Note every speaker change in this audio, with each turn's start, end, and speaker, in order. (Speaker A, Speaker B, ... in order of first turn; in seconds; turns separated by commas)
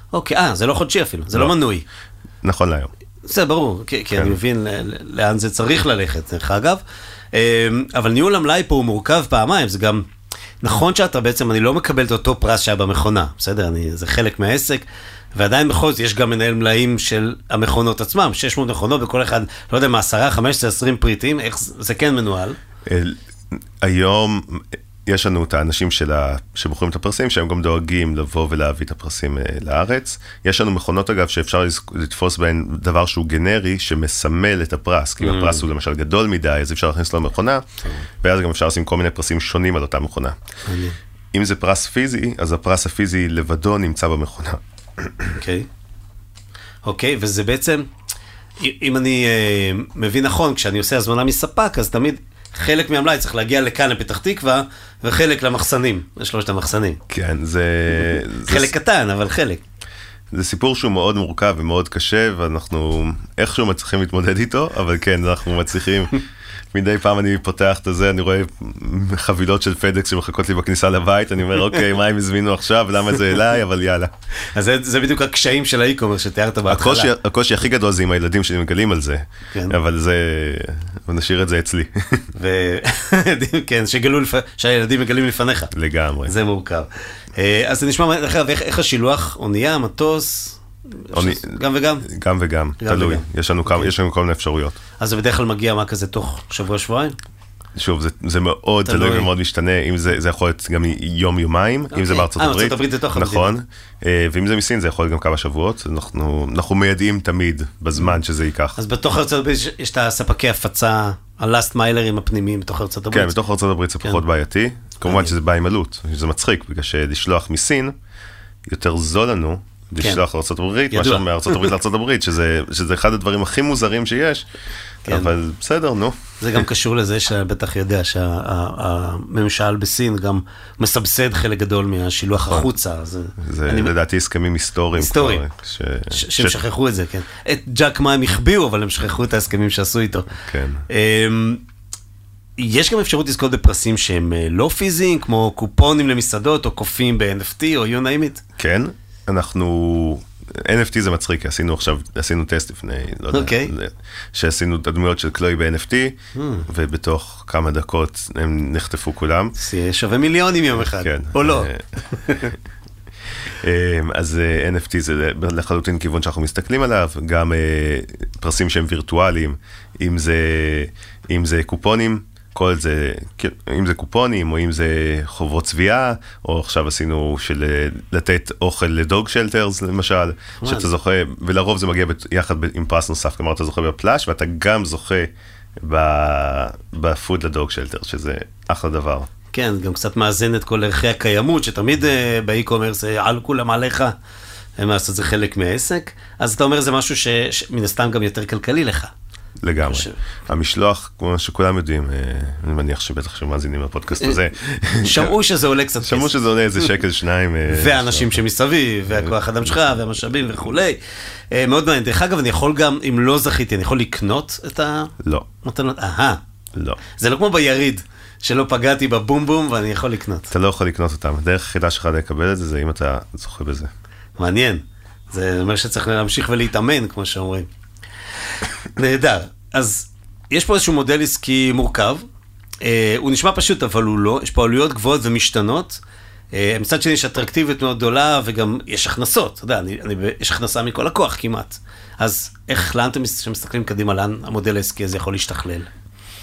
Speaker A: 0.1-1.8, Speaker B: 2.4-2.9, Speaker A: 3.2-6.8, Speaker A: 7.3-10.0, Speaker A: 10.6-14.8, Speaker A: 15.3-22.6, Speaker B: 22.9-37.6, Speaker A: 35.2-35.6, Speaker B: 38.2-40.3, Speaker A: 40.6-41.0, Speaker B: 41.3-45.4, Speaker A: 45.4-45.7, Speaker A: 46.8-47.9, Speaker A: 48.6-57.0, Speaker B: 57.1-58.7, Speaker A: 58.4-59.6, Speaker B: 60.3-66.1, Speaker B: 66.7-74.1, Speaker A: 74.5-77.1, Speaker B: 76.7-82.3, Speaker A: 82.3-85.7, Speaker B: 85.7-86.3, Speaker A: 86.2-92.1, Speaker B: 91.1-94.8, Speaker A: 92.8-93.9, Speaker A: 95.0-97.2, Speaker B: 97.8-108.8, Speaker A: 98.8-99.3, Speaker A: 101.9-103.5, Speaker A: 108.8-113.3, Speaker B: 113.1-117.9, Speaker A: 115.0-115.3, Speaker B: 118.7-124.5, Speaker A: 120.9-121.7, Speaker B: 125.0-126.2, Speaker A: 125.0-125.3, Speaker A: 126.4-133.9, Speaker B: 133.4-136.6, Speaker A: 134.9-135.4, Speaker A: 136.1-140.3, Speaker B: 140.3-140.8, Speaker A: 140.9-141.6, Speaker A: 142.6-148.4, Speaker B: 148.6-159.5, Speaker A: 153.3-153.7, Speaker A: 156.3-156.7, Speaker A: 159.6-162.5, Speaker B: 161.0-161.8, Speaker B: 163.6-185.3, Speaker A: 180.6-180.9, Speaker B: 185.8-189.3, Speaker A: 189.5-194.1, Speaker A: 194.8-199.1, Speaker B: 199.6-205.3, Speaker A: 199.8-200.2, Speaker A: 205.0-206.3, Speaker B: 206.0-208.4, Speaker A: 207.7-211.0, Speaker B: 209.1-210.0, Speaker A: 211.5-216.4, Speaker B: 215.2-215.5, Speaker A: 217.2-220.5, Speaker B: 220.5-223.9, Speaker A: 224.4-227.7, Speaker A: 228.9-232.2, Speaker A: 232.8-236.0, Speaker A: 236.5-245.9